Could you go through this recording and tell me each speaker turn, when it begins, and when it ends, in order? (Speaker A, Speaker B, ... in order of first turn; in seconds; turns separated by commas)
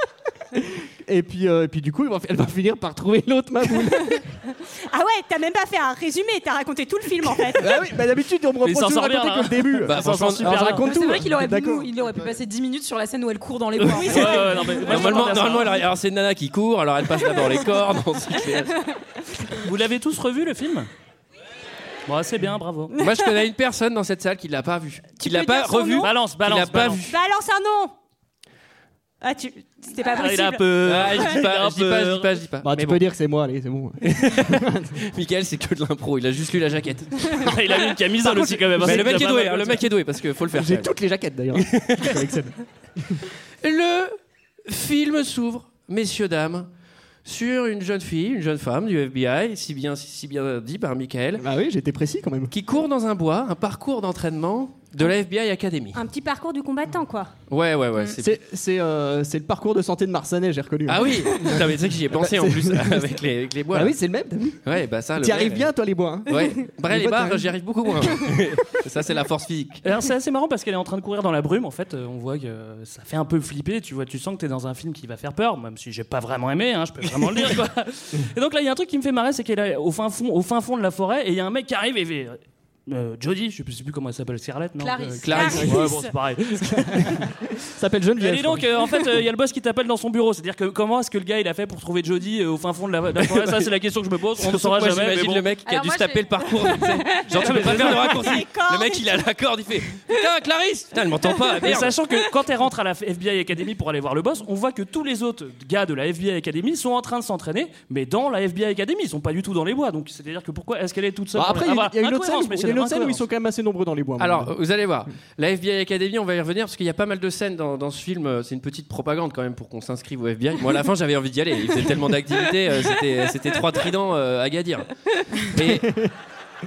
Speaker A: 0.9-4.2, Speaker B: 4.9-7.8, Speaker A: 7.4-11.9, Speaker C: 8.6-10.9, Speaker D: 9.9-10.8, Speaker E: 10.8-15.3, Speaker D: 13.8-18.7, Speaker C: 14.0-15.8, Speaker B: 14.2-14.8, Speaker C: 19.6-20.9, Speaker C: 22.1-22.9, Speaker D: 23.0-27.2, Speaker B: 25.2-26.1, Speaker C: 25.9-27.0, Speaker B: 27.1-27.9, Speaker B: 29.2-31.3, Speaker C: 30.0-32.3, Speaker D: 30.8-33.0, Speaker A: 32.6-35.0, Speaker D: 34.0-37.5, Speaker C: 37.4-39.8, Speaker A: 38.2-39.2, Speaker D: 38.8-40.9, Speaker A: 40.5-43.2, Speaker D: 41.5-42.2, Speaker D: 43.6-44.2, Speaker D: 44.7-46.7, Speaker D: 47.2-51.4, Speaker A: 51.4-52.5, Speaker D: 52.5-56.0, Speaker B: 55.9-57.3, Speaker D: 57.5-58.4, Speaker A: 58.1-63.2, Speaker D: 60.9-64.0, Speaker A: 63.7-64.6, Speaker D: 64.7-65.7, Speaker A: 65.2-67.5, Speaker D: 66.3-69.8, Speaker C: 69.8-87.1, Speaker E: 84.8-86.1, Speaker D: 85.2-85.8, Speaker A: 86.6-88.8, Speaker C: 88.2-95.5, Speaker D: 93.2-93.7, Speaker D: 94.4-102.0, Speaker E: 95.7-96.9, Speaker C: 97.4-98.2, Speaker B: 97.9-99.1, Speaker C: 101.6-113.2, Speaker A: 111.3-114.5, Speaker D: 114.2-125.9, Speaker A: 125.8-126.1